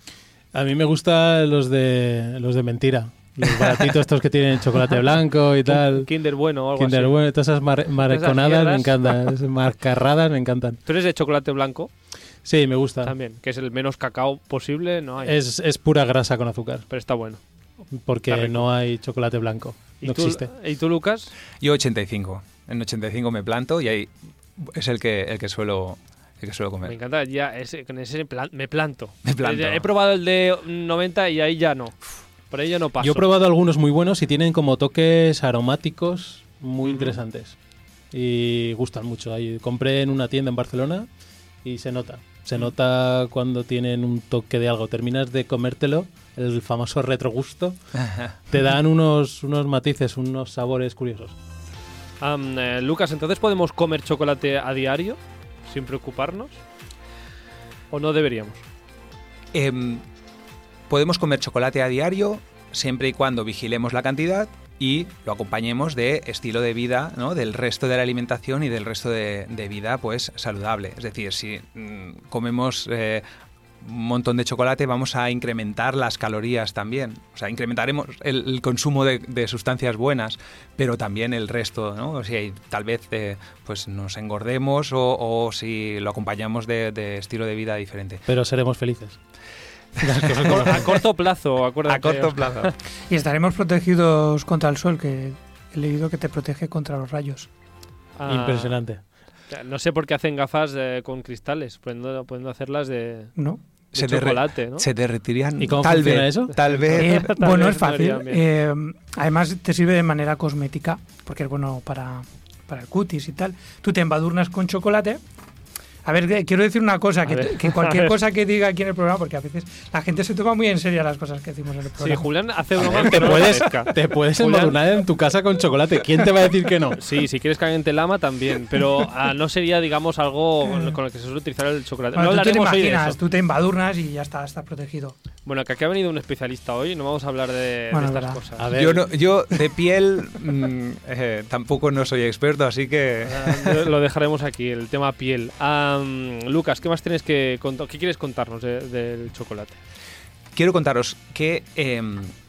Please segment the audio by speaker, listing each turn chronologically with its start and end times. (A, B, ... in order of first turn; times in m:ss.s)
0:00.5-0:06.1 A
0:05.6-0:07.2 B
0:06.8-0:10.8 A
0:08.0-0:09.0 B
0:10.8-0:11.9 B
0:12.4-0:13.1 A
0:13.0-0:15.3 B
0:15.2-0:16.8 A
0:16.9-0:17.4 B
0:17.9-0:20.5 A
0:18.3-0:18.7 B
0:20.0-0:21.3 B
0:21.6-0:27.0 C
0:26.8-0:33.2 B
0:29.2-0:29.8 C
0:33.0-0:37.6 A
0:36.8-0:37.2 B
0:38.1-0:41.1 A
0:41.6-0:47.8 A
0:48.0-0:48.3 C
0:48.5-0:51.3 A
0:52.2-0:56.6 B
0:57.9-0:58.6 B
0:59.5-1:00.0 C
1:00.9-1:13.2 C
1:13.8-1:28.2 C
1:28.3-1:29.2 A
1:30.0-1:30.9 A
1:30.0-1:30.8 C
1:30.5-1:32.7 B
1:31.8-1:32.7 C
1:33.1-1:37.5 D
1:38.2-1:38.8 B
1:38.3-1:39.0 A
1:39.5-1:43.3 B
1:43.4-1:43.6 D
1:43.9-1:44.8 B
1:43.9-1:47.3 C
1:45.6-1:46.8 A
1:46.7-1:48.4 B
1:47.0-1:55.2 D
1:56.0-2:02.3 D
1:57.2-1:58.1 B
2:02.0-2:04.8 B
2:02.8-2:07.0 A
2:06.9-2:13.2 B
2:10.7-2:10.9 D
2:12.1-2:15.2 D
2:15.4-2:18.7 B
2:17.9-2:18.4 D
2:18.6-2:19.1 A
2:18.7-2:23.9 C
2:23.2-2:29.8 B
2:30.5-2:32.3 C